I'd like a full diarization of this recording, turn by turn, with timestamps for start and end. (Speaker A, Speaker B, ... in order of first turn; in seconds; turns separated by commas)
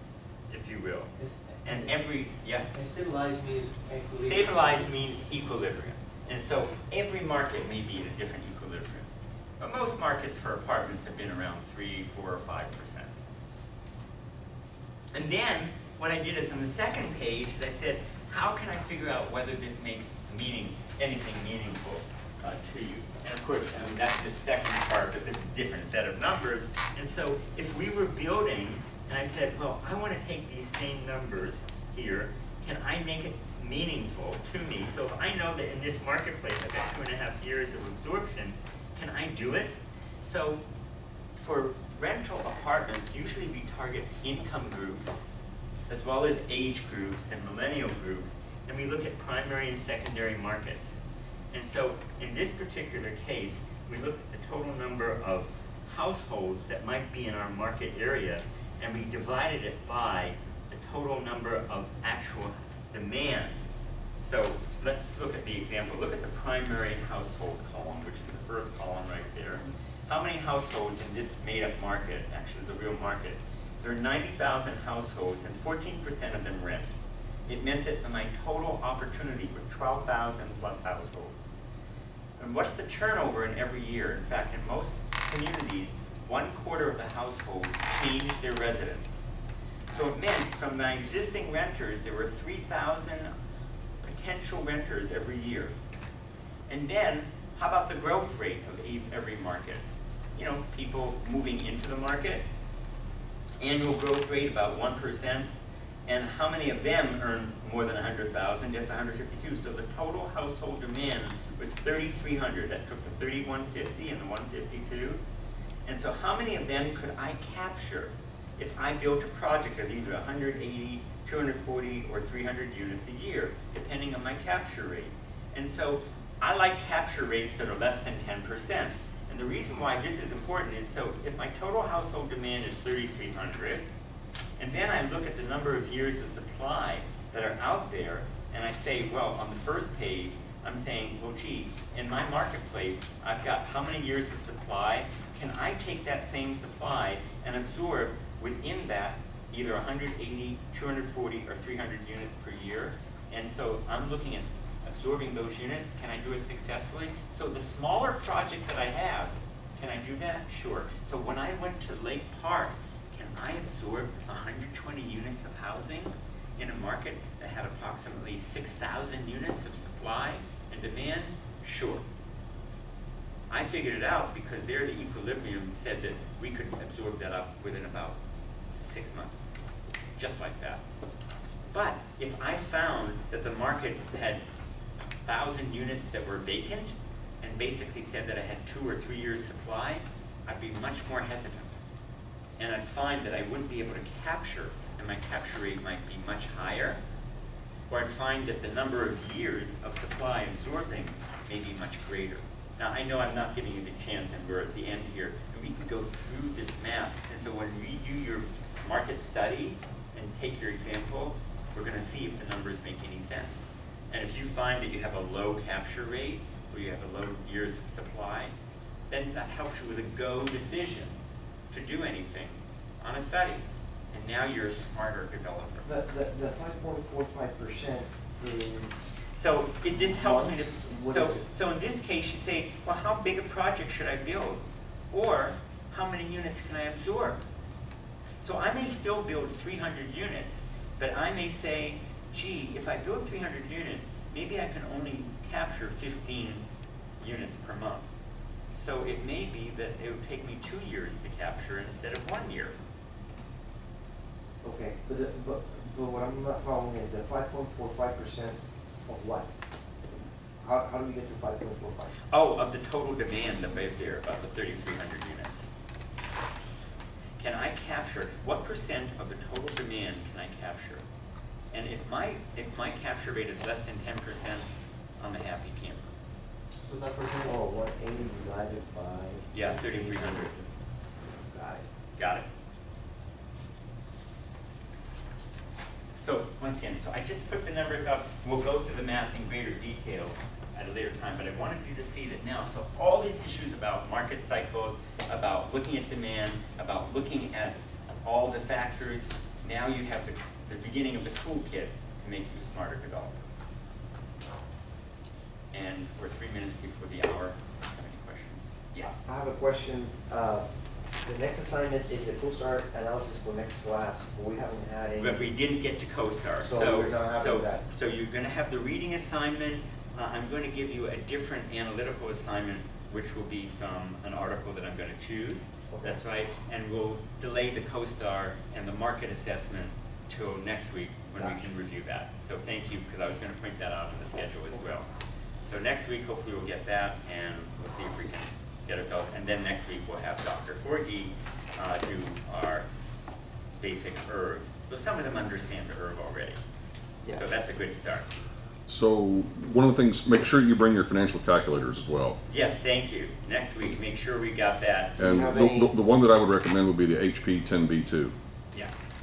Speaker A: 0.5-2.7, Speaker B: 1.2-2.0, Speaker B: 2.7-4.9, Speaker A: 4.1-13.2, Speaker A: 15.1-40.6, Speaker A: 41.3-45.2, Speaker A: 45.9-51.0, Speaker A: 51.5-63.6, Speaker A: 64.2-76.9, Speaker A: 77.5-81.5, Speaker A: 82.4-89.2, Speaker A: 89.9-93.3, Speaker A: 94.0-95.7, Speaker A: 96.7-99.8, Speaker A: 100.3-102.4, Speaker A: 103.6-105.5, Speaker A: 106.0-115.2, Speaker A: 115.8-133.9, Speaker A: 134.6-172.0, Speaker A: 173.5-178.2, Speaker A: 178.8-179.5, Speaker A: 180.2-180.8, Speaker A: 181.7-184.4, Speaker A: 185.2-191.8, Speaker A: 192.6-197.0, Speaker A: 197.9-218.5, Speaker A: 219.1-221.2, Speaker A: 221.7-225.9, Speaker C: 225.8-229.2, Speaker A: 229.3-237.4, Speaker C: 229.9-231.4, Speaker A: 238.4-246.6, Speaker A: 247.2-248.1, Speaker A: 248.7-252.8, Speaker C: 254.6-259.5, Speaker C: 260.6-262.1, Speaker A: 262.3-265.7, Speaker A: 267.4-271.0, Speaker A: 271.7-274.7, Speaker A: 275.2-276.1, Speaker B: 276.8-277.6, Speaker C: 277.4-280.5, Speaker A: 279.5-280.6, Speaker C: 281.4-281.9, Speaker A: 282.2-282.4, Speaker A: 286.1-303.4, Speaker A: 305.7-309.2, Speaker C: 309.0-315.4, Speaker A: 315.2-335.1, Speaker C: 316.6-317.8, Speaker C: 325.9-326.2, Speaker A: 335.6-342.9, Speaker A: 343.8-346.6, Speaker A: 347.3-348.3, Speaker D: 348.9-352.4, Speaker A: 352.5-355.2, Speaker D: 355.2-358.3, Speaker C: 355.2-355.9, Speaker A: 358.7-359.1